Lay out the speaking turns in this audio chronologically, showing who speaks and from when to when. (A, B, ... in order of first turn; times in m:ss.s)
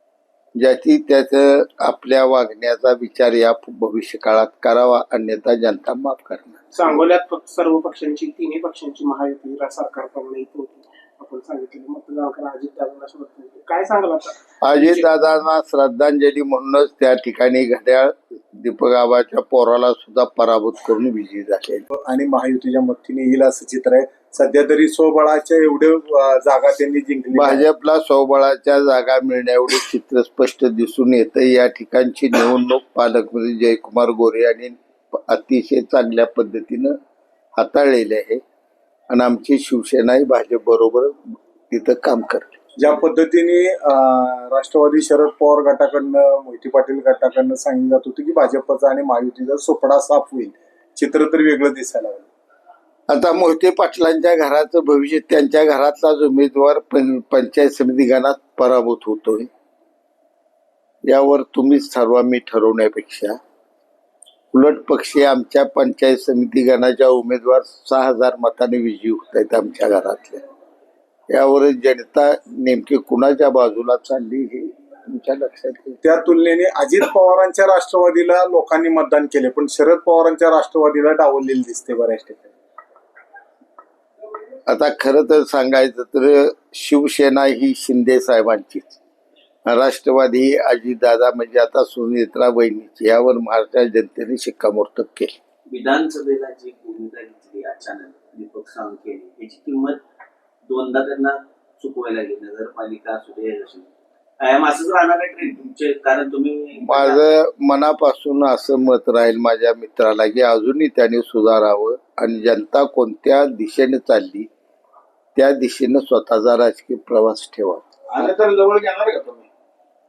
0:00.6-0:06.6 A
0:06.7-0:15.1 B
0:14.6-0:21.8 A
0:21.9-0:27.7 C
0:27.4-0:37.0 A
0:37.6-0:38.4 A
0:39.1-0:42.6 A
0:42.8-0:52.3 C
0:53.1-0:59.5 A
1:01.0-1:03.4 A
1:04.5-1:10.4 A
1:11.3-1:16.0 A
1:16.0-1:22.5 C
1:24.7-1:29.0 A
1:29.7-1:35.4 A
1:35.7-1:40.0 D
1:40.7-1:43.9 D
1:44.4-1:47.2 D
1:46.8-1:54.5 A
1:55.4-1:57.8 A
1:58.1-1:59.5 D